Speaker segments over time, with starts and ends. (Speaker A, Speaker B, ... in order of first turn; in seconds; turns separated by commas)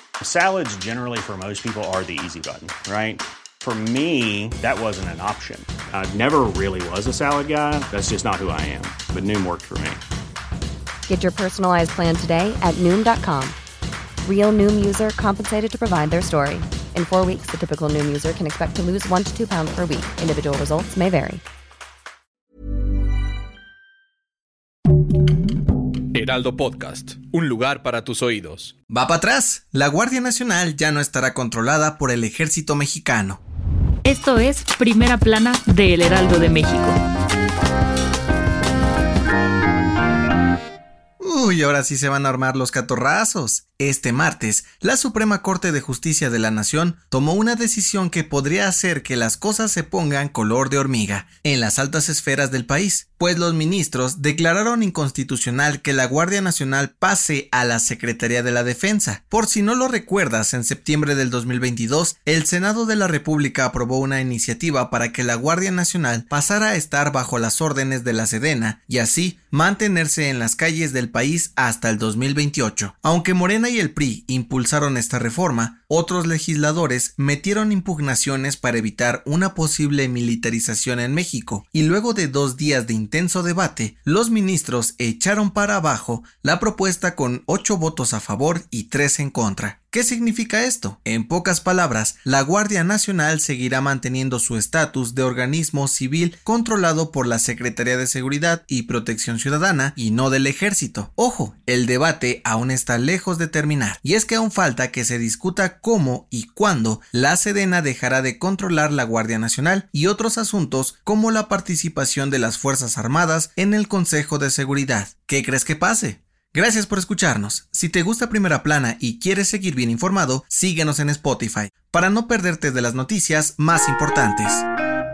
Speaker A: 0.2-10.0, Speaker B: 11.1-13.6, Speaker B: 14.2-21.4, Speaker C: 26.1-28.8, Speaker D: 28.9-33.4, Speaker E: 34.0-37.0, Speaker D: 41.2-124.7